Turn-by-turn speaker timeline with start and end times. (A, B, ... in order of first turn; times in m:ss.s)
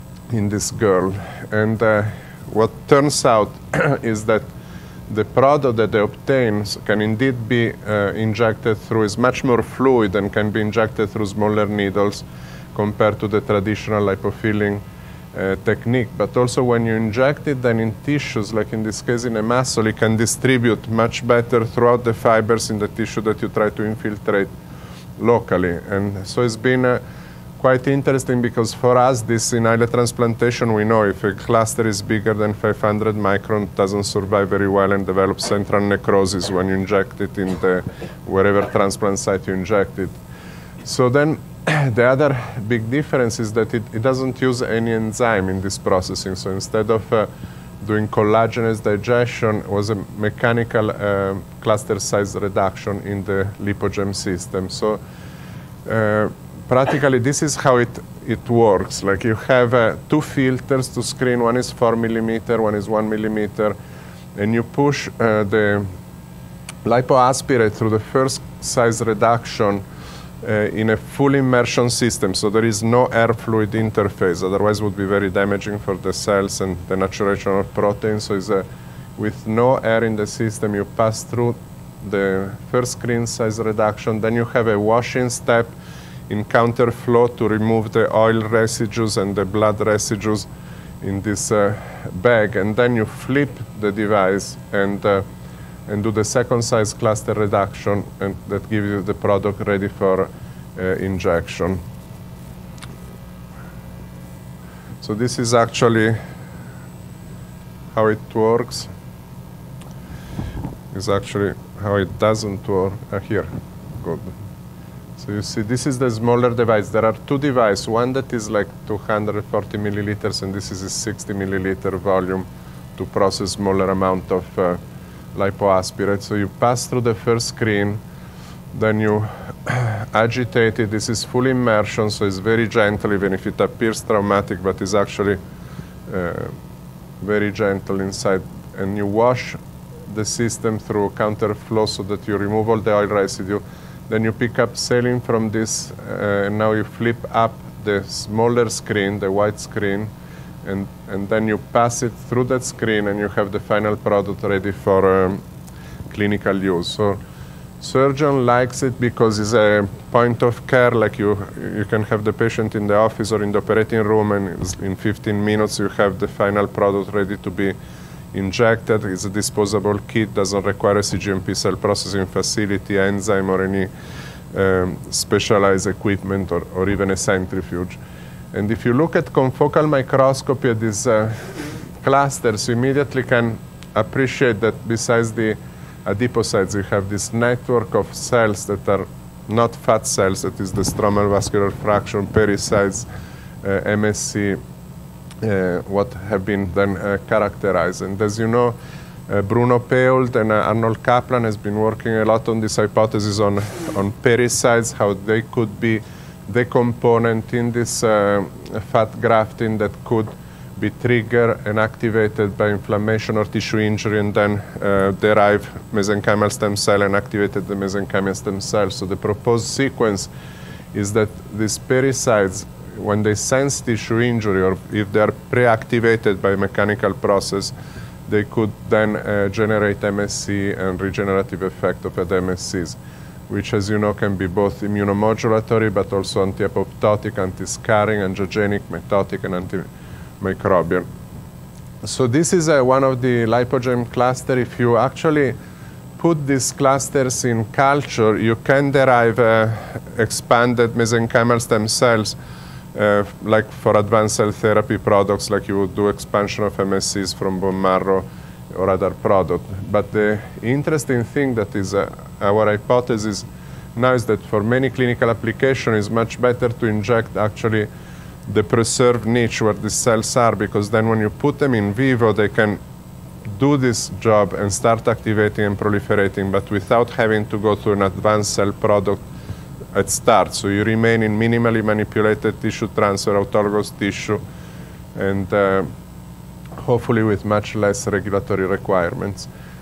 0:00.3-0:04.5 A
0:05.1-0:14.8 A
0:15.3-0:24.5 A
0:25.2-0:27.0 A
0:27.6-0:40.2 A
0:40.8-0:47.3 A
0:47.8-0:55.0 A
0:55.8-1:03.8 A
1:04.4-1:05.9 A
1:06.8-1:09.8 A
1:10.4-1:18.6 A
1:19.2-1:25.8 A
1:26.3-1:30.5 A
1:31.0-1:35.2 A
1:35.9-1:41.8 A
1:45.0-1:46.2 A
1:47.9-1:48.9 A
1:50.9-1:54.3 A
1:55.2-2:04.8 A
2:05.4-2:08.0 A
2:08.7-2:15.4 A
2:16.1-2:16.6 A
2:17.2-2:30.1 A
2:30.6-2:35.4 A
2:36.1-2:37.2 A
2:37.8-2:47.8 A
2:48.3-2:53.9 A
2:54.5-2:58.0 A
2:58.5-3:13.1 A
3:13.6-3:14.6 A
3:15.4-3:18.8 A
3:19.3-3:40.3 A
3:40.9-3:47.7 A
3:48.3-3:59.9 A
4:00.4-4:01.0 A
4:02.0-4:05.6 A
4:06.2-4:12.4 A
4:12.9-4:27.9 A
4:28.5-4:32.8 A
4:33.4-4:39.2 A
4:39.9-4:44.4 A
4:45.2-4:45.9 A
4:46.8-4:49.5 A